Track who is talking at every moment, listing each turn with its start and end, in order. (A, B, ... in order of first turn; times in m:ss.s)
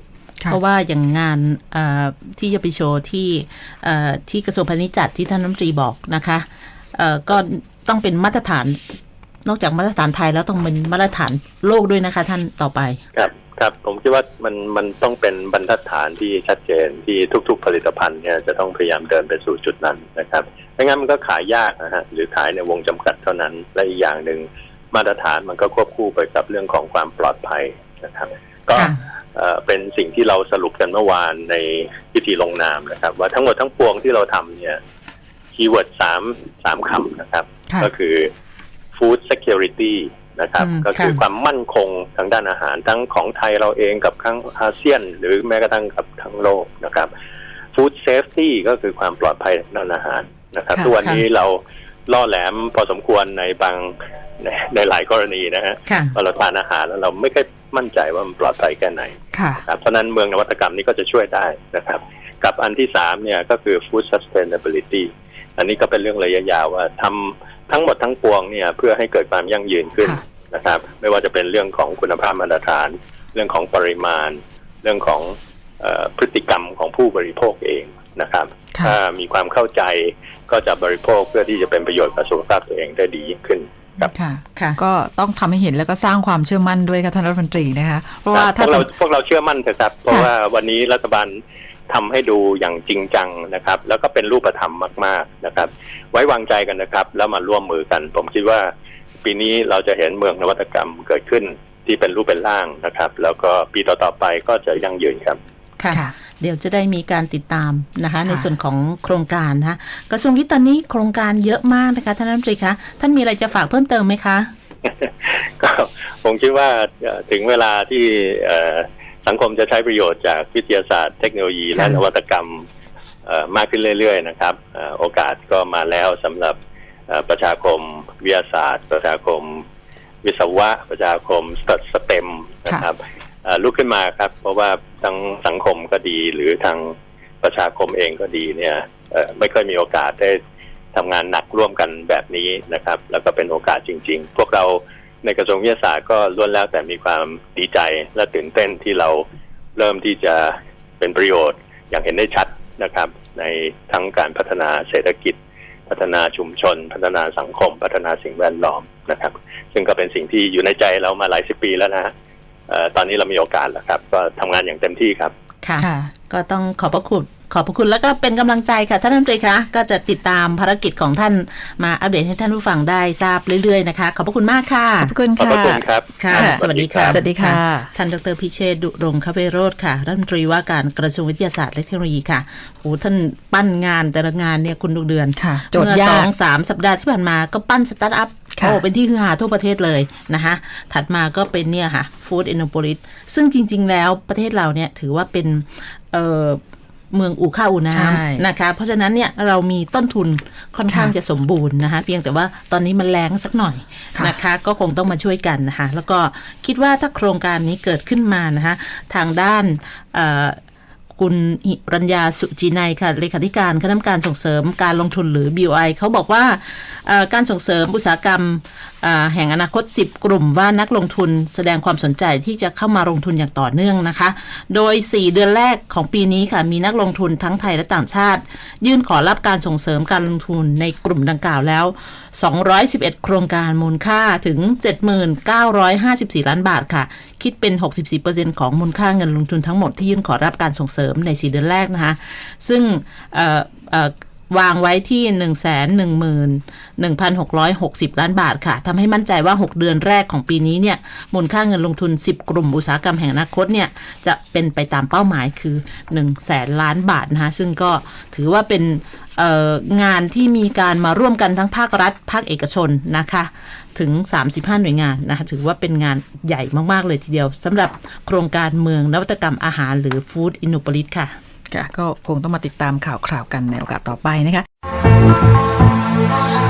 0:00.5-0:08.8 A
0:09.4-0:13.0 A
0:13.1-0:34.8 B
0:35.6-0:38.3 B
0:38.9-0:47.1 B
0:40.6-0:41.2 A
0:47.8-1:24.1 B
0:55.9-0:56.2 A
0:59.3-0:59.6 C
1:24.0-1:28.9 C
1:28.3-1:38.7 B
1:39.2-1:45.4 B
1:45.8-1:54.5 A
1:54.8-2:02.6 B
2:01.8-2:02.0 A
2:03.3-2:06.6 B
2:07.1-2:09.6 B
2:10.2-2:20.4 B
2:20.9-2:29.2 B
2:29.8-2:35.4 B
2:35.9-2:42.1 B
2:42.7-2:45.3 B
2:45.6-2:55.1 A
2:45.8-2:46.1 C
2:55.0-2:55.8 C
2:55.4-2:57.2 B
2:56.2-3:16.6 A
2:56.3-2:57.9 C
3:05.4-3:06.3 C
3:08.6-3:08.8 C
3:17.1-3:30.6 A
3:17.9-3:18.4 C
3:31.1-4:31.3 A
4:31.7-4:34.6 C